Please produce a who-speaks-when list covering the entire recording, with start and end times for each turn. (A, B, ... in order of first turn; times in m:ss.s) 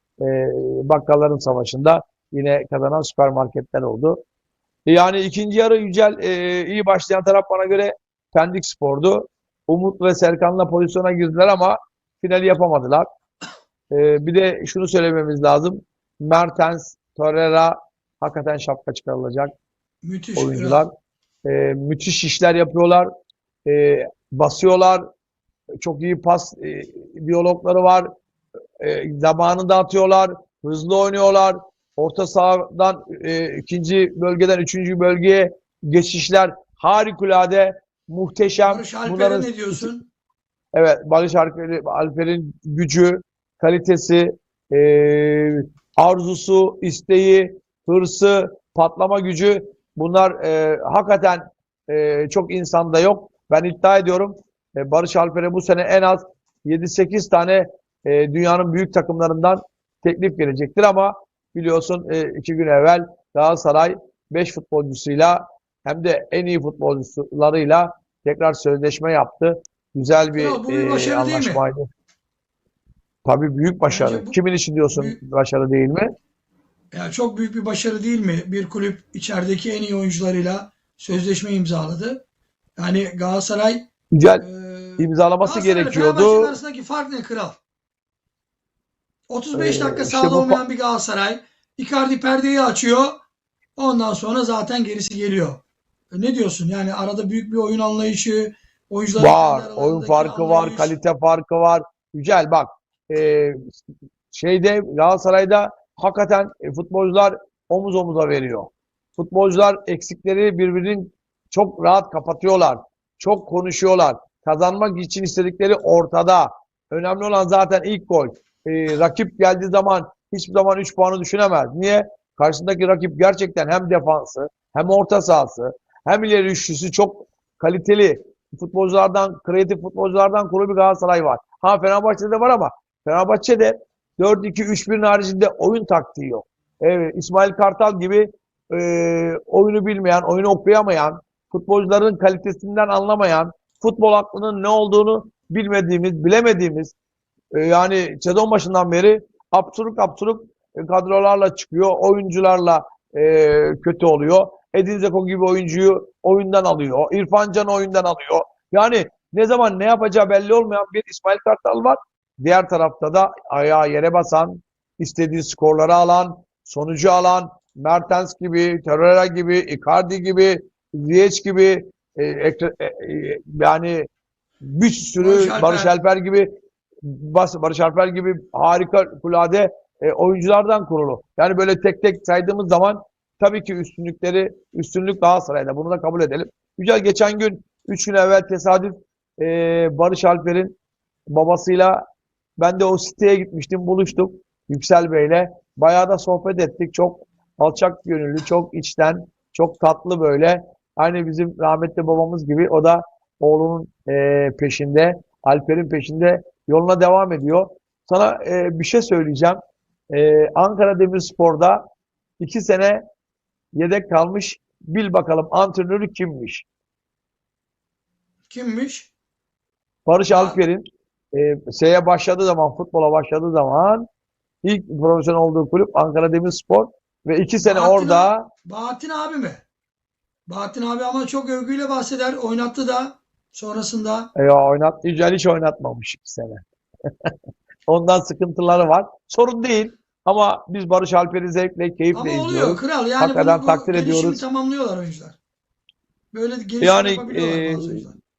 0:00.2-0:04.2 A
0:04.9-0:13.1 A
0:13.9-0:19.5 A
0:20.0-0:20.8 B
0:20.4-0:20.9 A
0:21.4-0:23.1 A
0:23.6-0:25.0 A
0:25.8-0:28.1 A
0:28.8-0:39.9 A
0:38.6-0:40.1 B
0:40.7-1:11.8 A
1:10.3-1:11.6 B
1:13.2-1:16.1 A
1:13.9-1:14.4 B
1:14.9-1:15.2 B
1:16.9-1:22.2 B
1:22.8-1:23.8 B
1:24.1-1:24.4 A
1:24.4-1:27.6 B
1:25.0-1:26.5 A
1:29.3-1:33.2 B
1:29.5-1:30.6 A
1:33.8-1:40.9 B
1:39.2-1:43.8 A
1:44.3-2:26.9 A
2:27.5-2:54.1 A
2:54.6-2:56.5 A
2:55.2-2:55.9 B
2:57.0-3:10.7 A
3:11.3-3:12.0 A
3:12.6-3:29.6 A
3:30.1-3:31.8 A
3:32.4-3:33.0 A
3:33.7-3:36.6 A
3:38.5-3:39.1 B
3:40.0-3:44.1 A
3:40.3-3:40.6 B
3:44.6-3:48.5 A
3:47.6-3:49.6 B
3:50.5-3:54.3 B
3:54.4-3:56.6 A
3:57.9-4:04.4 A
4:02.1-4:05.4 B
4:06.3-4:08.2 B
4:06.8-4:08.1 A